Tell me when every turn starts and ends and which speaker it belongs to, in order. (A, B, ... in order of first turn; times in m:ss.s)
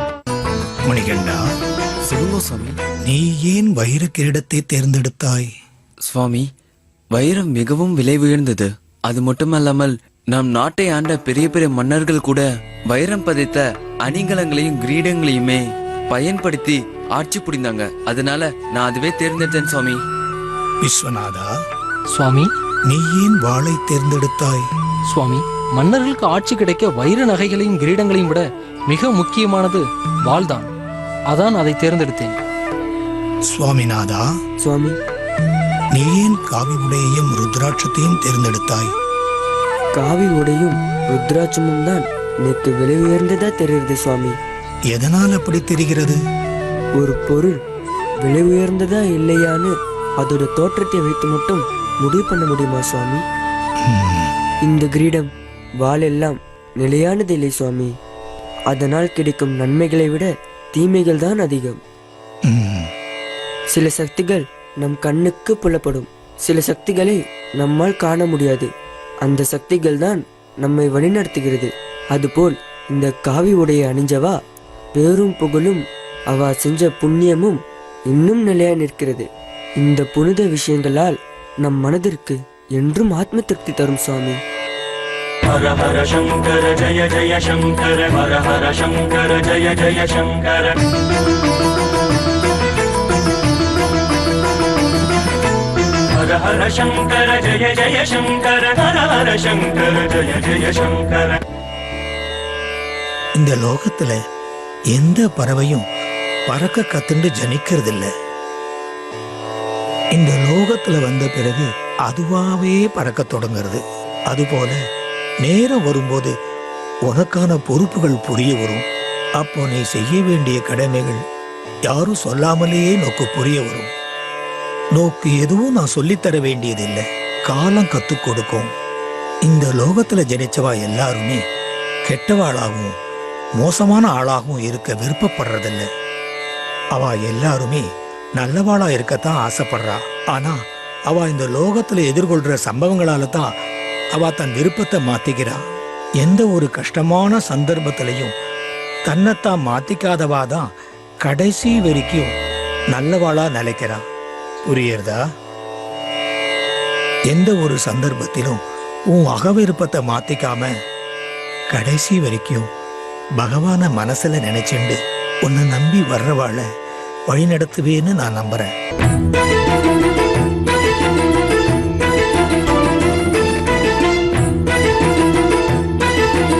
0:00.9-0:01.4 A
0:02.0-0:02.8 B
0:03.0-0:05.5 A
0:06.0-0:06.4 B
0:07.1-0:20.0 B
0:20.8-0:21.5 A
0:22.1-0:22.5 C
0:22.9-0:24.6 A
0:25.1-0:30.7 C
0:31.3-0:32.4 C
0:33.5-0:34.2 A
0:34.6-0:34.9 D
0:35.9-0:38.9 A
0:39.9-0:44.3 D
0:44.9-0:46.2 A
0:47.0-0:47.6 D
0:48.2-0:53.2 D
0:53.8-0:54.3 A
0:54.6-0:55.3 D
0:55.8-0:57.9 D
0:58.7-1:01.8 D
1:02.5-1:02.9 A
1:03.7-1:08.7 D
1:09.2-1:14.3 D
1:15.0-1:17.6 D
1:18.1-1:19.3 D
1:19.8-1:24.4 D
1:25.5-1:30.7 E
1:36.2-1:41.4 E
1:43.4-1:44.2 A
1:44.9-1:45.8 A
1:46.5-1:48.1 A
1:50.2-1:54.8 A
1:55.4-1:56.3 A
1:57.1-1:58.8 A
1:59.4-2:01.2 A
2:01.9-2:03.9 A
2:04.9-2:08.7 A
2:09.4-2:11.4 A
2:12.1-2:12.9 A
2:13.6-2:15.8 A
2:17.0-2:17.8 A
2:18.4-2:20.6 A
2:21.1-2:23.5 A
2:24.2-2:25.6 A
2:26.2-2:28.3 A
2:29.0-2:30.6 A
2:31.2-2:32.3 A
2:32.9-2:34.0 A
2:34.6-2:35.2 A
2:37.3-2:38.6 A
2:39.1-2:40.7 A
2:41.7-2:42.6 A
2:43.4-2:46.6 A
2:47.3-2:48.7 A